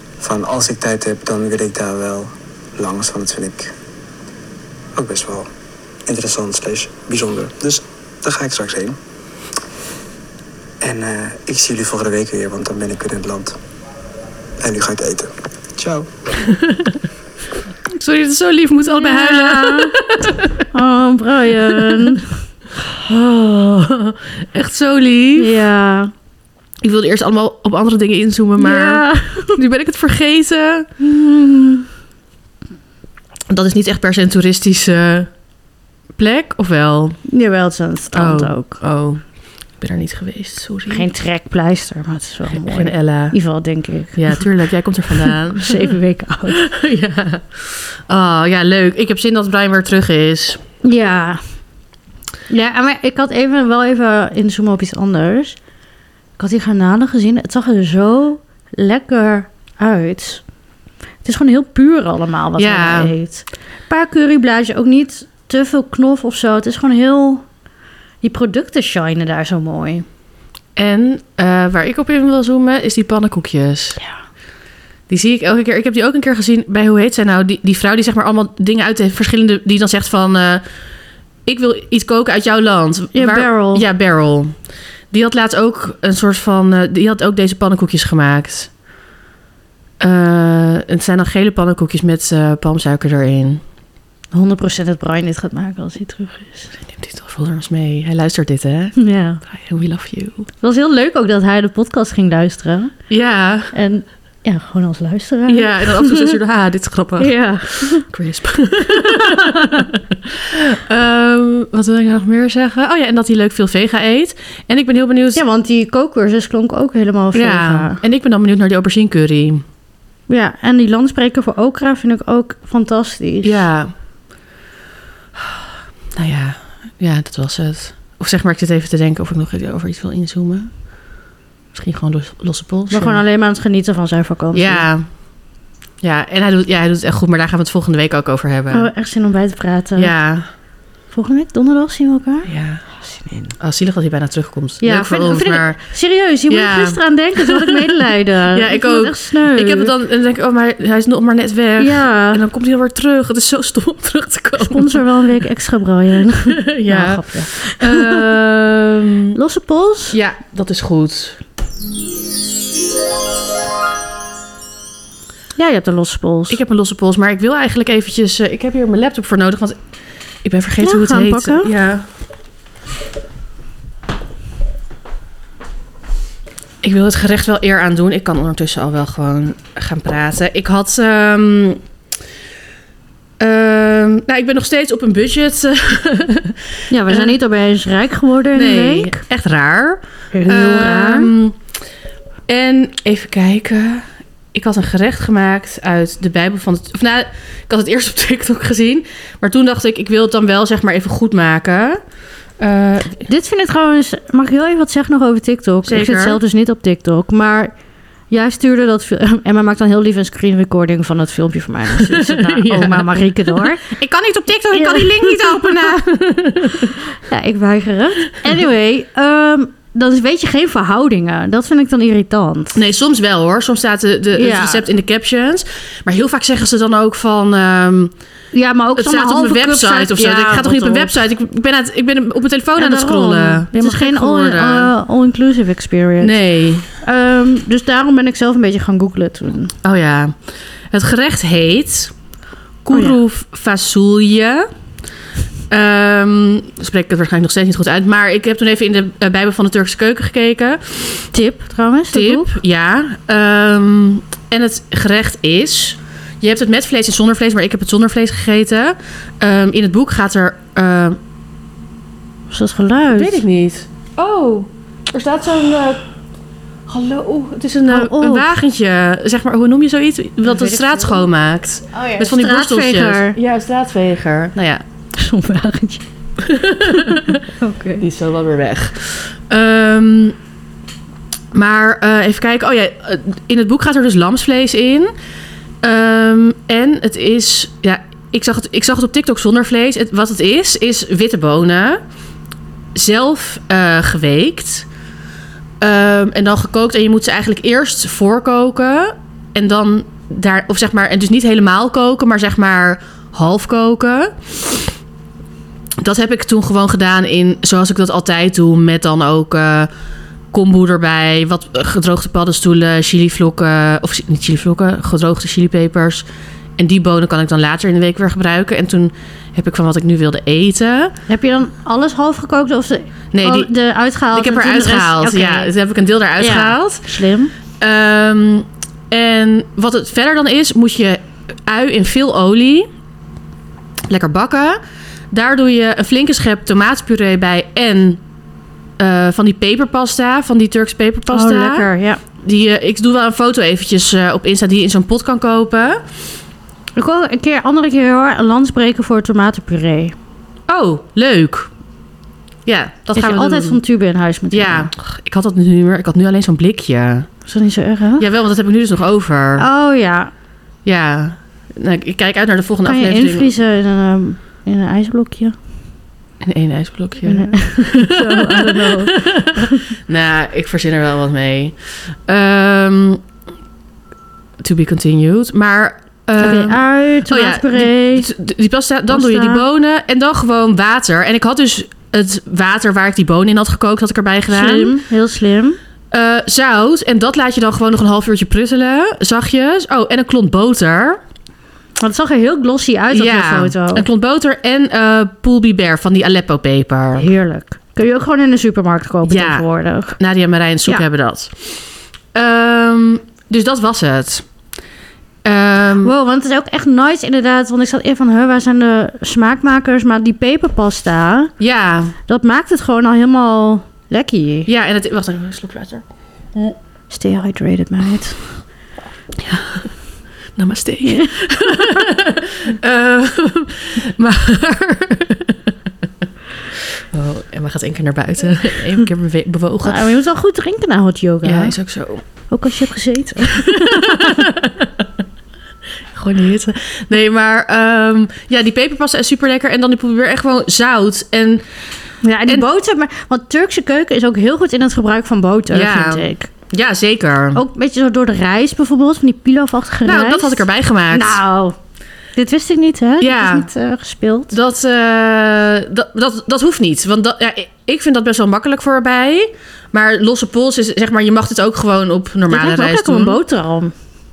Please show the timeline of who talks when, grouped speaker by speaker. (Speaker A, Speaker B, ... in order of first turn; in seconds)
Speaker A: 0.2-3.7, 5.0-5.5, 6.1-9.0, 10.8-13.6, 14.6-16.1
Speaker B: 16.4-17.0, 17.9-20.7, 21.6-22.1, 23.1-25.6, 26.8-30.9, 33.5-35.3, 36.2-37.2, 38.1-39.2, 39.8-41.1, 42.5-43.4, 44.1-46.0, 46.5-50.6, 62.6-63.1, 70.8-74.0, 75.1-80.6, 81.5-84.5, 85.1-88.7, 90.0-93.6, 96.8-100.5, 103.1-103.7, 105.5-115.4, 117.3-119.6, 123.4-123.9, 126.2-130.7, 131.7-133.2, 134.5-135.1, 136.0-138.9, 140.0-140.5, 142.5-142.8, 143.6-145.8, 146.5-148.0, 148.5-155.0, 156.5-159.4, 160.1-161.4, 166.5-169.8, 170.4-172.1, 176.8-181.8, 183.4-187.3, 188.5-191.6, 192.5-202.0, 202.6-203.2, 205.8-206.4, 212.0-217.0, 222.8-228.1, 228.9-234.9, 236.2-236.9, 239.8-240.4, 240.9-242.1, 242.8-244.7, 245.7-251.3, 252.1-261.2, 263.1-266.0, 266.9-274.8, 276.4-277.4, 278.0-280.4, 281.5-285.1, 285.8-292.0, 292.9-294.9, 295.8-304.8, 306.0-309.9, 310.5-316.2, 316.8-321.1, 323.3-323.7, 324.3-327.1, 327.8-332.9, 334.1-334.8, 335.3-338.2, 339.0-341.9, 342.4-346.0, 350.7-351.7, 352.7-353.8, 354.5-357.3, 358.2-359.6, 360.9-363.5, 366.4-373.2, 374.6-385.0, 386.1-391.2, 393.1-397.3, 399.3-399.6, 400.2-401.8, 402.3-404.4, 405.4-406.1, 411.6-412.1, 414.7-416.0, 419.4-419.9, 420.6-425.7, 427.1-430.1, 431.4-432.2, 433.5-435.1, 436.1-441.6, 445.7-447.6, 450.1-451.4, 453.2-453.7, 454.5-463.4
Speaker C: 18.9-20.0, 20.7-22.4, 25.4-26.1, 28.6-29.6, 31.0-31.9, 37.3-38.8, 40.9-44.5, 45.2-46.6, 50.8-51.4, 52.5-55.6, 56.4-60.4, 61.2-67.4, 68.2-70.1, 83.2-83.8, 94.3-96.7, 99.0-99.4, 100.6-102.9, 103.7-106.4, 107.2-108.1, 109.0-109.9, 115.3-118.0, 120.3-123.7, 132.9-134.9, 138.7-140.1, 141.1-142.5, 143.1-143.5, 144.8-149.9, 151.8-152.4, 154.6-158.3, 159.4-160.2, 165.6-166.6, 170.8-171.7, 186.9-189.2, 190.3-191.3, 203.2-207.7, 208.3-213.8, 214.7-216.0, 216.8-222.8, 224.4-224.9, 228.5-231.2, 232.8-236.4, 237.0-239.8, 242.9-243.2, 251.3-252.5, 262.5-263.4, 267.9-268.5, 270.4-271.3, 271.9-273.4, 275.2-276.0, 276.9-278.0, 321.3-325.7, 326.4-327.5, 341.3-342.2, 347.0-350.1, 353.2-354.9, 357.5-358.3, 359.6-360.3, 362.9-365.6, 367.3-369.8, 376.4-378.3, 379.1-379.6, 384.5-385.8, 392.0-394.1, 397.2-400.2, 406.0-411.5, 412.3-414.7, 417.1-418.4, 421.1-421.4, 429.8-431.8, 432.5-434.4, 442.2-446.5, 447.6-451.8, 452.4-454.5, 462.5-463.9